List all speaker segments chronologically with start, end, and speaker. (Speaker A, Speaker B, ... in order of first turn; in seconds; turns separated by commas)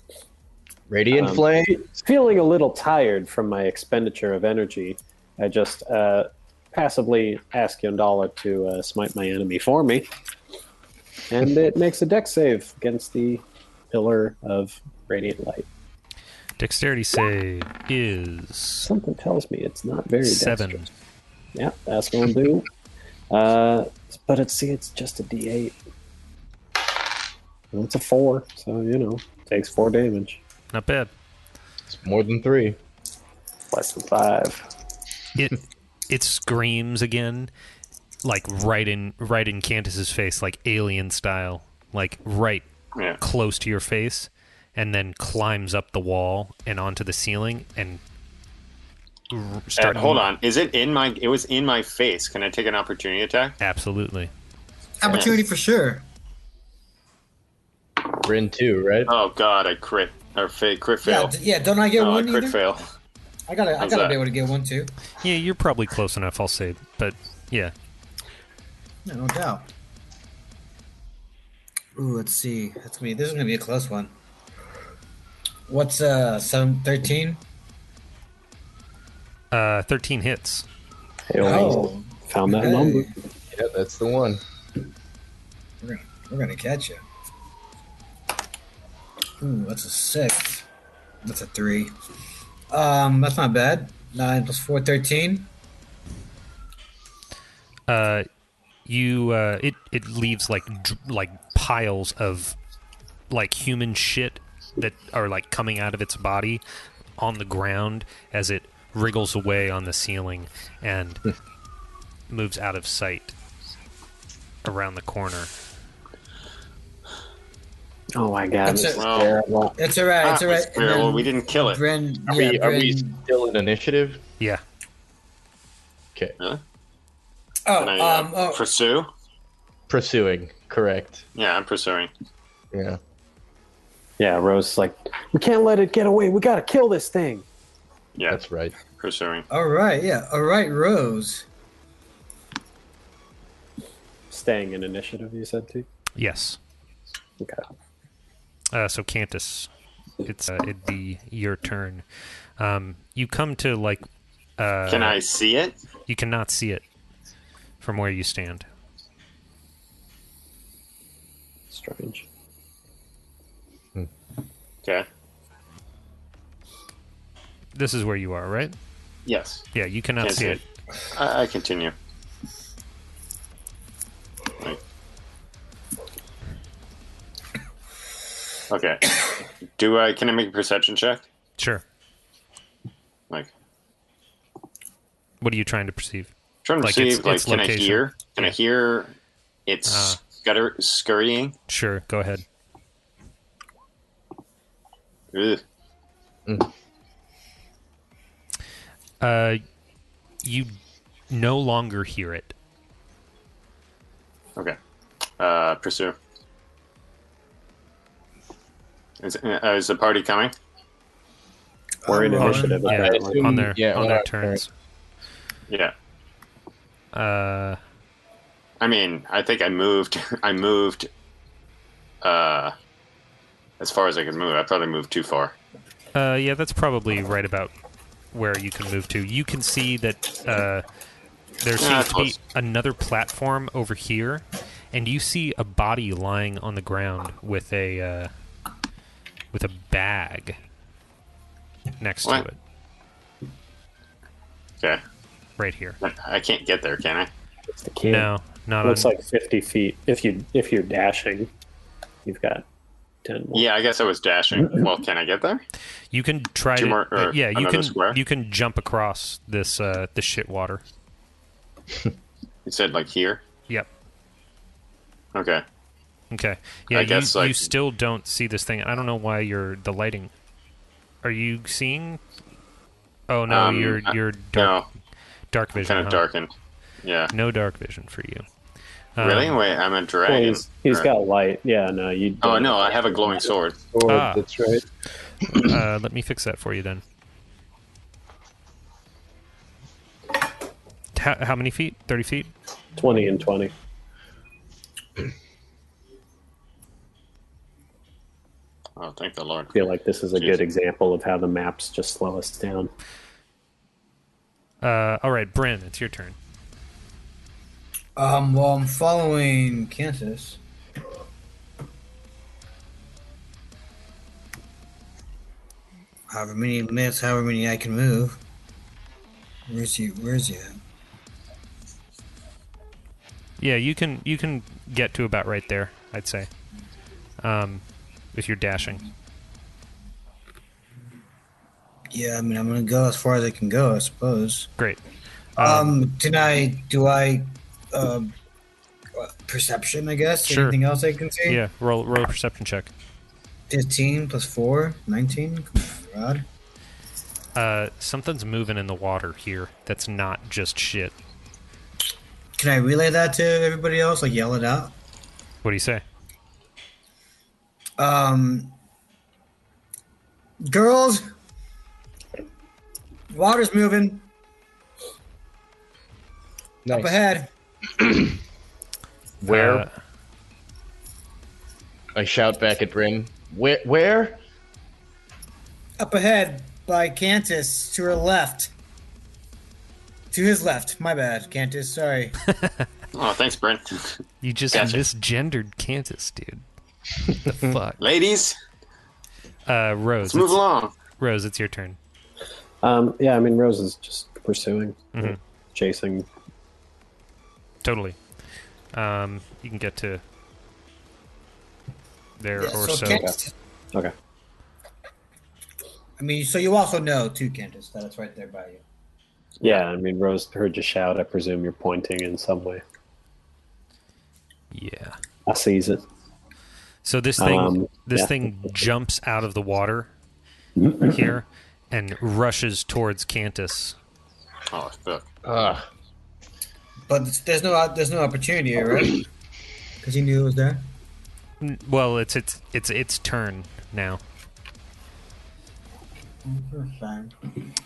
Speaker A: 0.9-1.9, Speaker B: 1.1-10.1, Speaker B: 11.3-15.7, Speaker C: 16.6-18.9, Speaker B: 18.8-20.9, Speaker C: 20.2-20.9, Speaker B: 21.5-22.7, Speaker B: 23.3-25.8, Speaker B: 27.7-30.4, Speaker C: 30.7-31.1, Speaker A: 31.9-32.8, Speaker B: 33.7-34.7, Speaker C: 35.4-37.5, Speaker C: 38.2-42.6, Speaker C: 43.2-48.0, Speaker C: 49.3-50.2, Speaker D: 49.8-53.6, Speaker C: 53.6-54.3, Speaker E: 55.0-56.0, Speaker D: 55.1-55.4, Speaker A: 58.2-59.1, Speaker D: 59.1-61.3, Speaker E: 61.0-62.6, Speaker D: 62.0-62.8, Speaker E: 63.5-64.9, Speaker D: 63.8-64.2, Speaker C: 65.2-67.7, Speaker E: 69.0-69.7, Speaker E: 72.0-74.1, Speaker E: 75.7-77.4, Speaker C: 79.5-80.6, Speaker B: 81.3-83.1, Speaker E: 81.4-83.1, Speaker A: 83.5-84.4, Speaker E: 85.8-87.0, Speaker E: 89.4-90.7, Speaker E: 91.2-91.9, Speaker E: 92.7-95.5, Speaker C: 97.9-98.3, Speaker C: 98.8-102.5, Speaker C: 103.3-106.6, Speaker C: 107.2-111.2, Speaker C: 112.3-113.3, Speaker C: 114.6-115.5, Speaker B: 118.1-119.8, Speaker E: 118.7-119.0, Speaker D: 118.9-119.3, Speaker E: 119.8-123.2, Speaker D: 120.2-121.8, Speaker A: 122.3-124.2, Speaker E: 127.7-128.6, Speaker D: 127.8-129.1, Speaker A: 129.9-131.2, Speaker D: 131.3-132.1, Speaker A: 132.7-133.0, Speaker B: 134.2-137.4, Speaker A: 138.3-138.7, Speaker D: 139.0-139.4, Speaker E: 139.5-141.4, Speaker B: 144.3-145.8, Speaker C: 146.2-146.6, Speaker C: 148.7-149.7, Speaker C: 150.2-152.0, Speaker C: 152.6-154.0, Speaker C: 154.6-155.2, Speaker D: 154.9-155.8, Speaker C: 156.1-156.8, Speaker C: 157.8-158.7, Speaker B: 161.7-162.2, Speaker C: 167.7-168.8, Speaker D: 169.2-169.7, Speaker C: 169.7-170.6, Speaker D: 170.2-170.6, Speaker D: 171.1-171.9, Speaker D: 178.7-179.2, Speaker D: 179.8-181.2, Speaker C: 181.6-181.8, Speaker C: 185.4-188.5, Speaker D: 186.6-189.1, Speaker D: 189.7-191.5, Speaker C: 189.9-190.2, Speaker C: 191.7-192.4, Speaker D: 195.3-195.6, Speaker C: 199.2-199.6, Speaker C: 200.4-200.8, Speaker C: 201.3-202.5, Speaker D: 205.4-206.2, Speaker D: 209.2-210.5, Speaker E: 212.0-212.8, Speaker B: 212.1-213.6, Speaker C: 212.7-214.7, Speaker A: 212.9-214.6, Speaker D: 215.7-215.9, Speaker C: 217.1-217.8, Speaker D: 218.8-221.1, Speaker D: 222.2-222.7, Speaker D: 223.8-225.5, Speaker C: 226.1-227.7, Speaker C: 228.3-230.8, Speaker C: 231.6-238.3, Speaker D: 231.8-232.3, Speaker C: 239.5-240.6, Speaker C: 242.0-242.6, Speaker C: 245.6-246.0, Speaker D: 246.0-247.3, Speaker B: 247.7-248.3, Speaker C: 248.1-249.1, Speaker B: 248.8-251.5, Speaker B: 252.2-252.6, Speaker B: 253.2-253.7, Speaker D: 253.5-255.6, Speaker B: 254.5-254.9, Speaker C: 256.1-260.8, Speaker D: 256.8-258.2, Speaker D: 262.6-263.4, Speaker D: 265.3-265.6, Speaker C: 266.3-270.3, Speaker D: 266.9-267.7, Speaker C: 271.2-272.2, Speaker C: 273.3-274.7, Speaker D: 273.5-274.9, Speaker C: 275.5-276.2, Speaker D: 275.8-276.5, Speaker D: 277.0-277.3, Speaker C: 277.3-278.4, Speaker C: 279.2-279.6, Speaker D: 279.2-281.1, Speaker B: 280.2-283.5, Speaker D: 282.4-283.8, Speaker A: 283.9-284.8, Speaker C: 284.1-284.4, Speaker C: 285.5-287.0, Speaker C: 291.1-292.5, Speaker B: 293.0-293.7, Speaker D: 299.0-299.8, Speaker B: 299.7-302.9, Speaker C: 304.8-306.4, Speaker E: 308.2-310.6, Speaker E: 316.3-318.4, Speaker E: 319.7-320.8, Speaker C: 323.6-326.5, Speaker C: 327.4-329.0, Speaker E: 332.1-334.7, Speaker C: 335.6-336.0, Speaker E: 335.6-338.3, Speaker E: 339.2-341.6, Speaker C: 340.4-340.8, Speaker C: 341.4-342.9, Speaker E: 343.7-346.4, Speaker C: 347.5-351.1, Speaker E: 352.6-354.9, Speaker C: 355.6-356.0, Speaker E: 358.0-358.7, Speaker E: 360.6-361.2, Speaker E: 363.3-364.3, Speaker A: 366.9-367.2, Speaker E: 366.9-367.5, Speaker A: 369.4-369.9, Speaker C: 369.5-369.9, Speaker A: 372.1-374.4, Speaker E: 376.0-378.7, Speaker E: 380.3-382.4, Speaker D: 383.1-384.2, Speaker C: 384.4-386.6, Speaker D: 384.7-385.0, Speaker C: 387.3-388.0, Speaker D: 388.0-388.6, Speaker C: 389.6-390.6, Speaker D: 390.2-390.9, Speaker C: 391.2-392.0, Speaker B: 392.8-396.3, Speaker C: 397.8-398.2, Speaker C: 398.9-400.2, Speaker C: 402.4-403.2, Speaker E: 402.6-403.5, Speaker B: 403.1-403.3, Speaker E: 406.2-408.8, Speaker B: 409.6-412.8, Speaker C: 414.7-415.2, Speaker B: 415.4-416.0, Speaker C: 417.0-420.1, Speaker B: 417.4-418.3, Speaker B: 420.8-421.3, Speaker C: 421.0-424.0, Speaker D: 424.7-425.3, Speaker A: 425.4-425.9, Speaker E: 427.1-429.2, Speaker E: 430.0-430.8, Speaker C: 431.6-434.2, Speaker E: 436.4-437.3